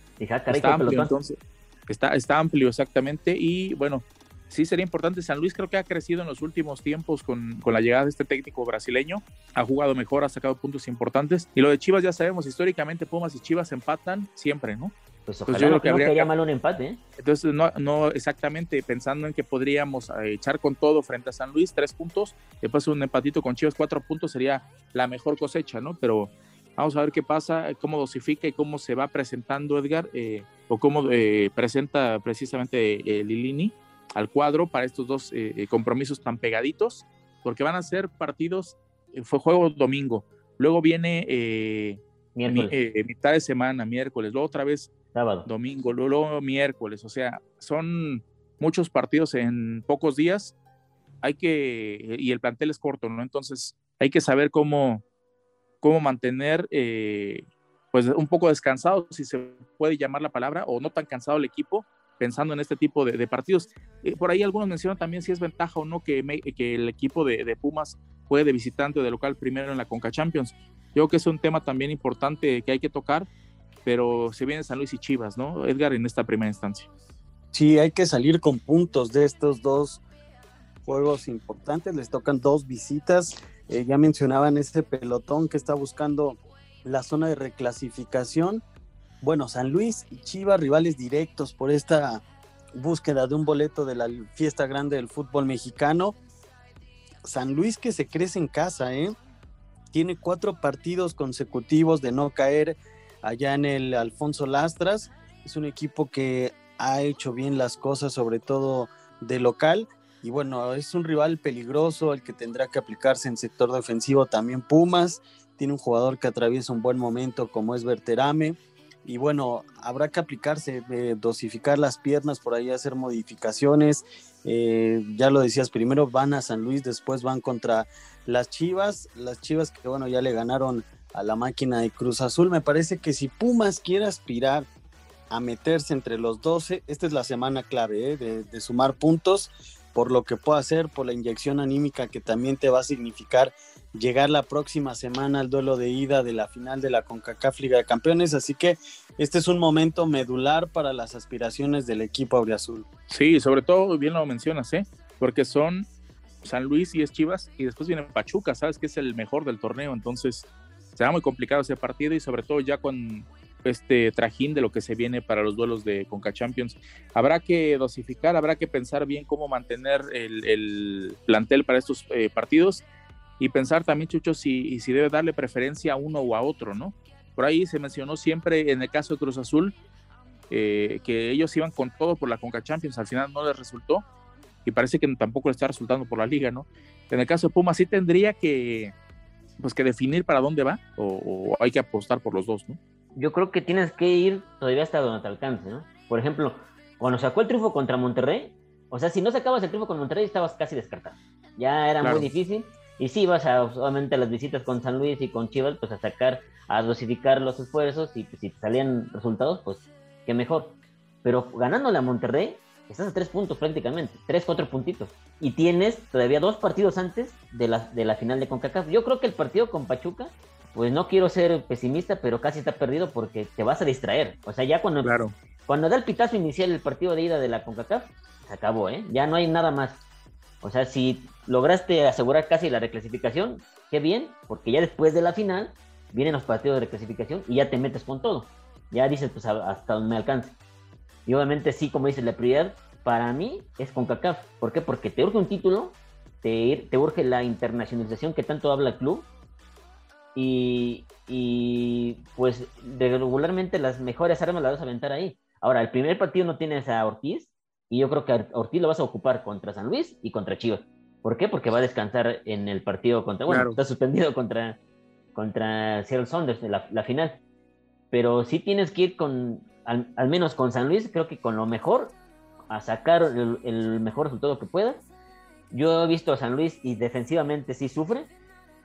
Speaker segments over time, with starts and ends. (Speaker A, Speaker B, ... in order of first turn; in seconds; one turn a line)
Speaker A: 0.2-1.1
Speaker B: 0.5-14.9
Speaker A: 15.2-17.0
Speaker B: 15.5-16.3
Speaker B: 17.2-44.9
Speaker A: 42.3-42.7
Speaker A: 45.1-45.5
Speaker B: 45.5-50.5
Speaker B: 51.2-55.0
Speaker B: 55.8-73.3
Speaker B: 73.8-76.9
Speaker C: 77.5-80.0
Speaker C: 80.8-88.6
Speaker C: 89.2-92.2
Speaker C: 92.8-96.2
Speaker C: 97.2-99.2
Speaker C: 99.9-134.7
Speaker C: 135.3-152.9
Speaker B: 153.1-155.9
Speaker B: 156.4-172.8
Speaker B: 173.4-179.8
Speaker B: 180.5-184.0
Speaker B: 184.6-188.9
Speaker B: 189.6-192.8
Speaker A: 193.2-230.0
Speaker B: 202.0-202.3
Speaker B: 225.0-225.3
Speaker A: 230.6-240.6
Speaker A: 241.2-249.3
Speaker A: 250.3-264.8
Speaker B: 263.5-263.8
Speaker A: 265.3-267.4
Speaker A: 268.1-272.1
Speaker A: 272.7-275.0
Speaker A: 275.7-278.3